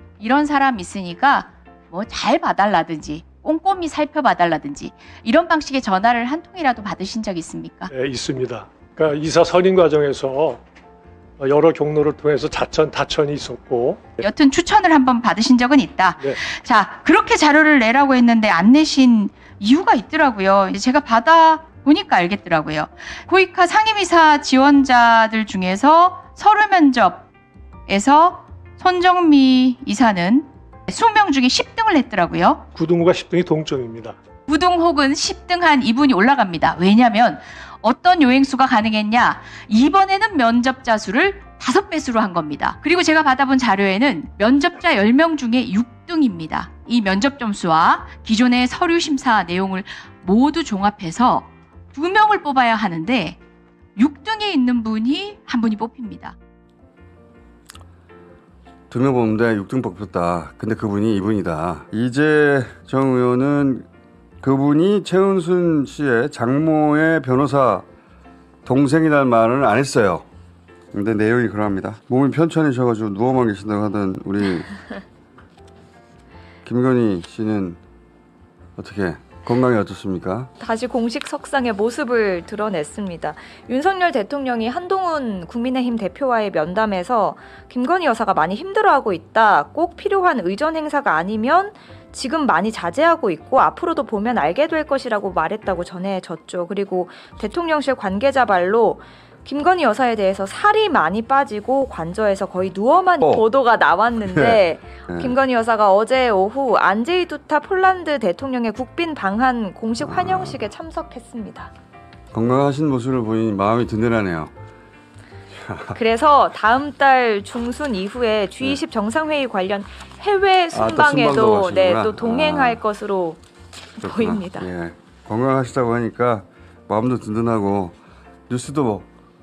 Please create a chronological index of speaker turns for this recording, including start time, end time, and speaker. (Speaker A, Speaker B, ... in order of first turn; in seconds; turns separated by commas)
Speaker A: 0.2-7.9, Speaker B: 7.9-10.6, Speaker B: 11.4-14.2, Speaker A: 14.2-27.3, Speaker A: 27.9-32.6, Speaker B: 32.7-34.2, Speaker A: 34.5-53.4, Speaker A: 54.0-56.4, Speaker C: 58.9-63.9, Speaker C: 64.4-67.9, Speaker C: 68.7-70.3, Speaker C: 70.9-74.7, Speaker C: 76.7-77.8, Speaker C: 78.8-80.5, Speaker D: 80.6-111.7, Speaker C: 104.2-105.3, Speaker C: 110.0-110.6, Speaker C: 112.3-114.5, Speaker C: 115.6-116.0, Speaker D: 116.0-123.4, Speaker C: 120.7-122.8, Speaker D: 124.0-124.7, Speaker C: 124.0-128.0, Speaker C: 128.5-129.1